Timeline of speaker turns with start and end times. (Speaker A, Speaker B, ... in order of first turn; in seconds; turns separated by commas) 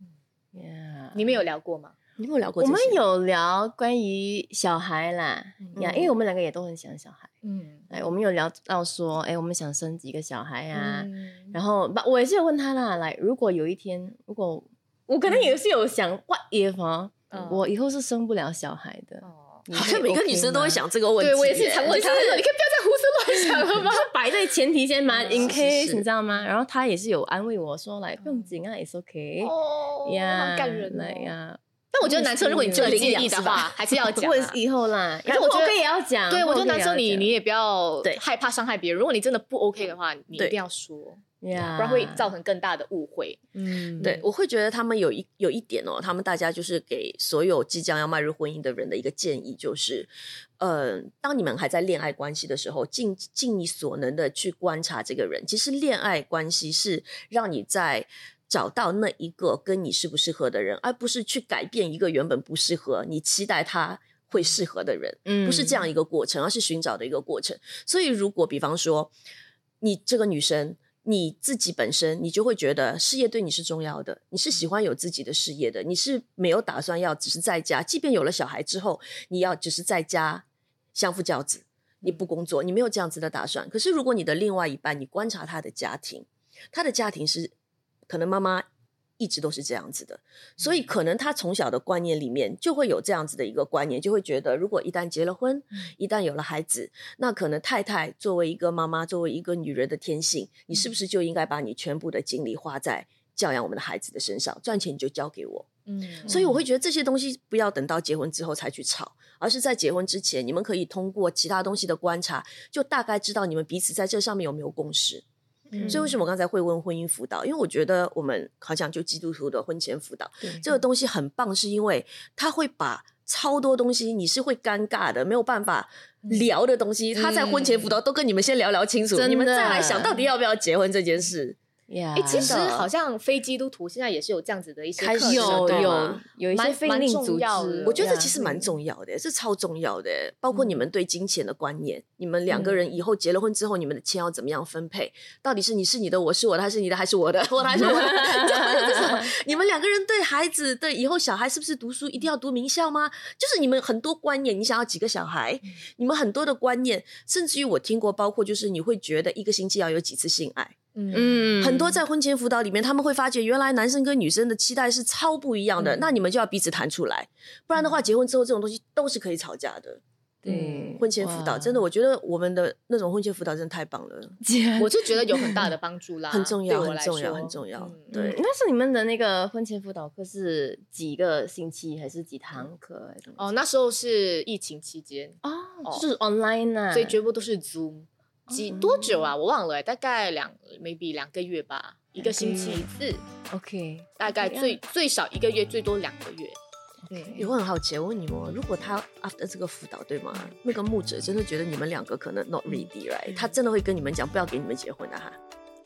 Speaker A: 0.5-1.4, Speaker B: 1.1-1.9, Speaker C: 2.2-3.0, Speaker A: 2.6-7.3, Speaker C: 5.7-6.1, Speaker B: 7.4-7.9, Speaker A: 7.9-20.8, Speaker B: 10.7-11.6, Speaker B: 15.3-15.6, Speaker B: 17.3-17.7, Speaker B: 19.2-19.6, Speaker C: 19.7-22.5, Speaker B: 21.2-24.1, Speaker A: 23.3-29.5, Speaker B: 25.1-25.6, Speaker C: 25.4-26.1, Speaker B: 29.4-31.3, Speaker A: 30.0-33.4, Speaker B: 31.9-34.6, Speaker C: 32.7-33.7, Speaker A: 34.1-37.3, Speaker B: 35.2-35.8, Speaker B: 36.3-44.2, Speaker A: 41.4-42.3, Speaker A: 43.5-44.1, Speaker C: 44.0-69.1, Speaker A: 65.2-65.8, Speaker C: 69.8-87.5, Speaker C: 88.1-88.7, Speaker C: 89.2-105.7, Speaker B: 105.9-106.5, Speaker C: 106.2-115.2, Speaker B: 115.7-116.0, Speaker A: 115.7-116.1, Speaker C: 115.9-131.6, Speaker B: 126.2-126.5, Speaker B: 127.1-127.9, Speaker A: 129.1-130.1, Speaker A: 131.9-132.5, Speaker B: 132.2-138.0, Speaker C: 132.3-132.9, Speaker C: 135.0-136.2, Speaker A: 135.2-138.7, Speaker C: 137.8-160.8, Speaker A: 147.8-149.3, Speaker B: 160.9-161.5, Speaker A: 161.1-162.0, Speaker C: 161.6-174.4, Speaker A: 170.4-171.8, Speaker B: 170.5-170.8, Speaker A: 174.4-175.7, Speaker B: 174.8-178.1, Speaker C: 176.3-178.4, Speaker A: 178.1-183.4, Speaker B: 183.4-186.0, Speaker A: 185.4-187.2, Speaker B: 186.9-193.2, Speaker A: 188.5-188.8, Speaker C: 188.8-189.1, Speaker A: 192.2-192.8, Speaker A: 193.5-194.8, Speaker B: 194.2-196.6, Speaker A: 197.1-197.5, Speaker B: 197.1-197.4, Speaker C: 197.3-205.4